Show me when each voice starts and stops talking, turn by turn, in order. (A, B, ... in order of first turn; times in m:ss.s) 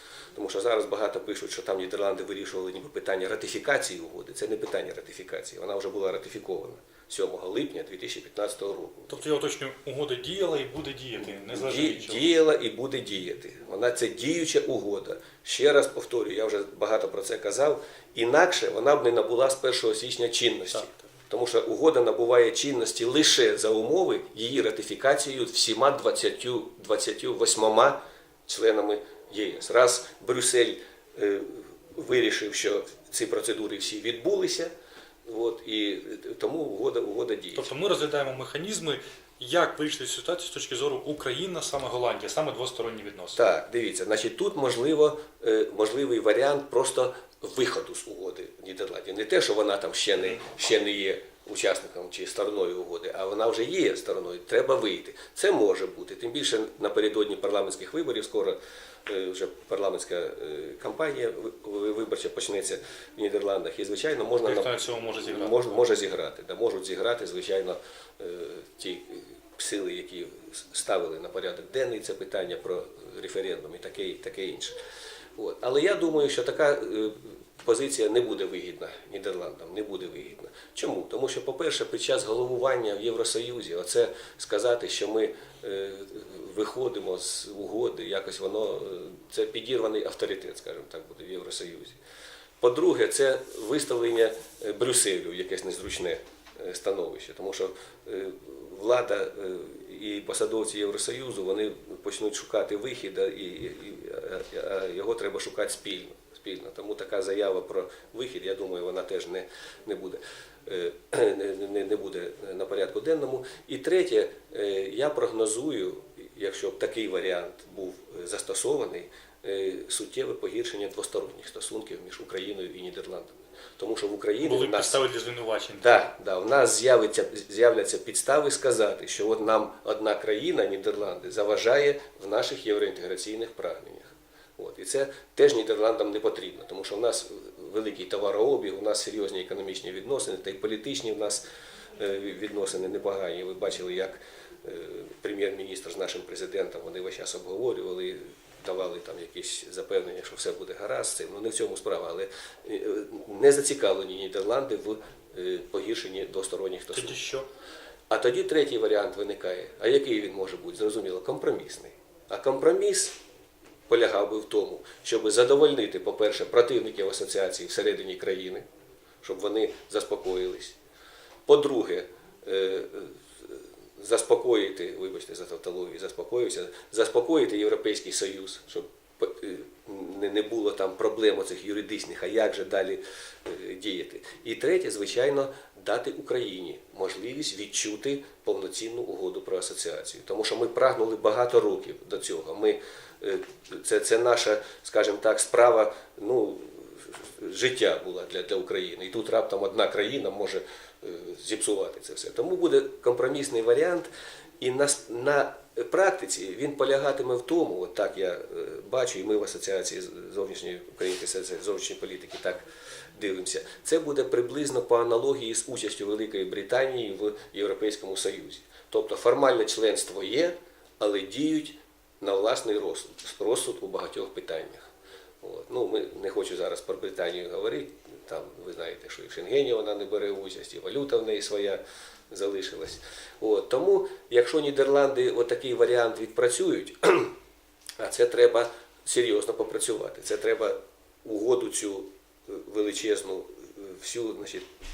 0:00.4-0:09.2 A
0:09.1-0:12.3 B
0:11.5-0:34.7 A
0:35.3-0:37.7 A
0:37.5-0:43.5 B
0:43.4-1:14.7 A
1:04.4-1:05.8 B
1:15.4-1:32.0 A
1:32.6-2:05.0 A
2:04.4-2:06.0 B
2:05.8-2:21.4 A
2:22.0-2:37.2 A
2:36.9-2:37.5 B
2:38.1-2:43.2 A
2:43.9-2:48.6 A
2:49.2-2:50.8 A
2:51.5-3:24.1 A
3:24.6-3:32.6 A
3:33.2-3:44.9 A
3:45.4-3:57.3 A
3:58.0-4:04.6 A